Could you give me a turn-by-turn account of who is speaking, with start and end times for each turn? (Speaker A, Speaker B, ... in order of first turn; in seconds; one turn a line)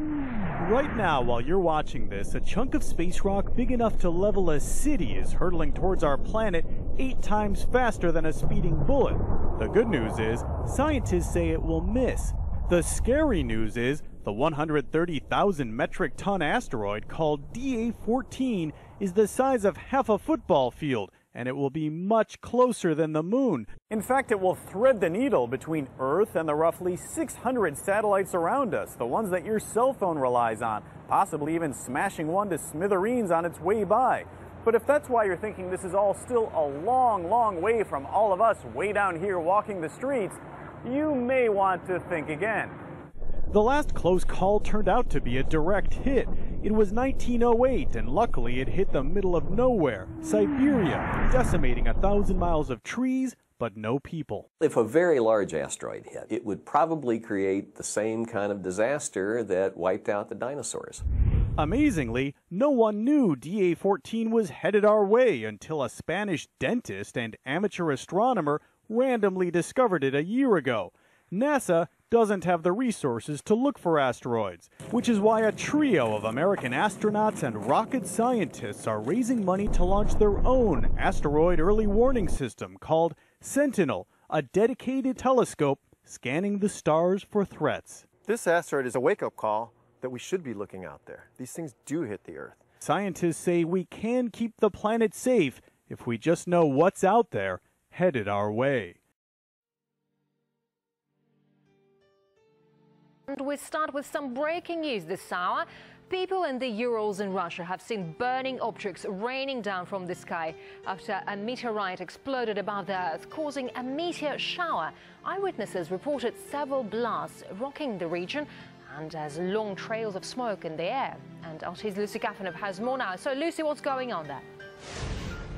Speaker A: 0.6-42.8
Speaker A: 43.5-54.5
Speaker B: 54.6-61.0
Speaker A: 61.6-88.1
Speaker C: 88.3-92.6
Speaker A: 92.8-99.0
Speaker D: 103.3-124.5